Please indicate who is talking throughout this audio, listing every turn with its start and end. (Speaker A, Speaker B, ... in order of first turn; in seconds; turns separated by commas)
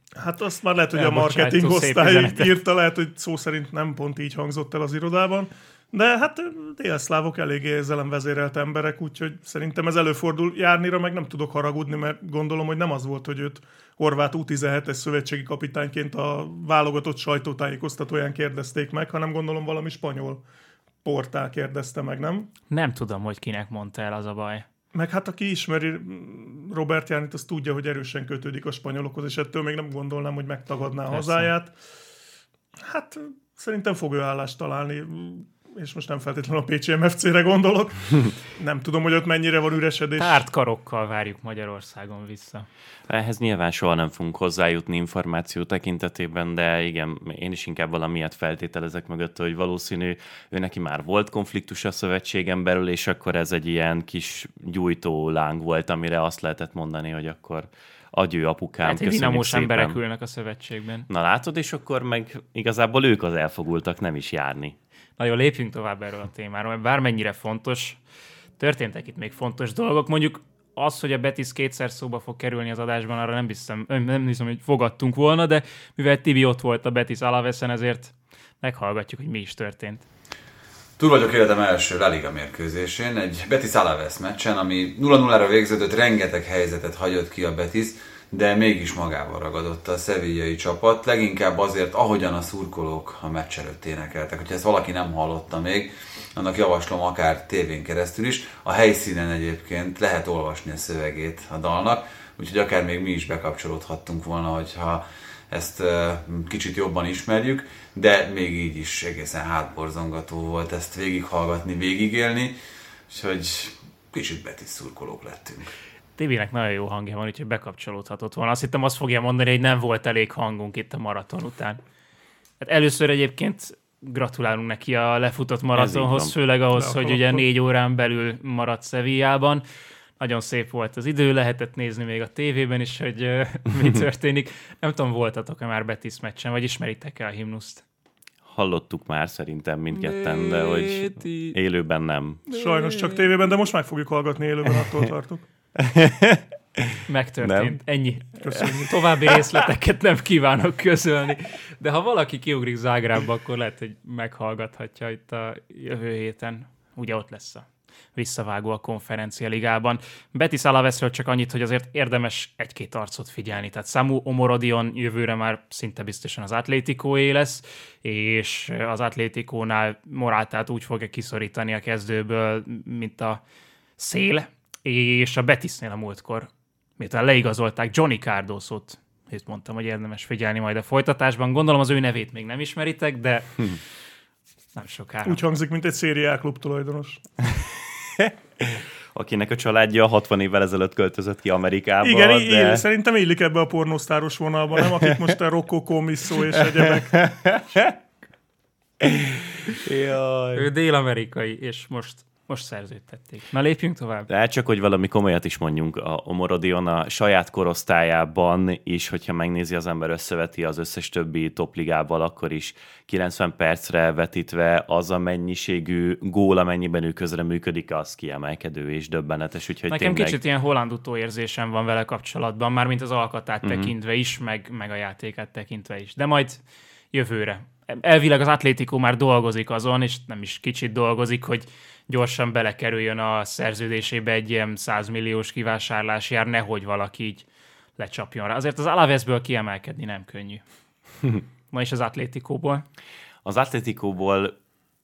Speaker A: 0.2-20.4, Speaker B: 0.9-2.6, Speaker A: 21.0-22.5, Speaker B: 22.7-24.6, Speaker A: 24.9-31.7, Speaker B: 31.1-31.5, Speaker A: 32.8-40.4, Speaker B: 40.2-42.7, Speaker C: 43.1-60.0, Speaker B: 58.8-61.1, Speaker C: 61.1-64.8, Speaker B: 65.2-68.0, Speaker B: 68.6-80.0, Speaker D: 81.0-112.5, Speaker D: 113.1-115.7, Speaker B: 116.2-121.8, Speaker B: 122.6-129.6, Speaker C: 125.7-126.3, Speaker A: 126.8-127.4, Speaker B: 130.2-137.8, Speaker C: 138.4-142.4, Speaker B: 139.9-141.6, Speaker B: 142.5-143.2, Speaker A: 142.5-145.4, Speaker C: 145.8-147.8, Speaker B: 147.1-173.4, Speaker A: 148.4-149.0, Speaker B: 174.0-183.6, Speaker B: 184.8-185.4, Speaker A: 185.2-187.2, Speaker C: 188.2-192.9, Speaker A: 192.0-197.3, Speaker C: 196.6-197.9, Speaker C: 199.0-200.7, Speaker B: 200.5-204.3, Speaker C: 204.3-220.4, Speaker B: 219.9-237.4, Speaker C: 223.6-223.9, Speaker B: 238.0-240.6, Speaker B: 241.7-242.8, Speaker C: 243.4-244.5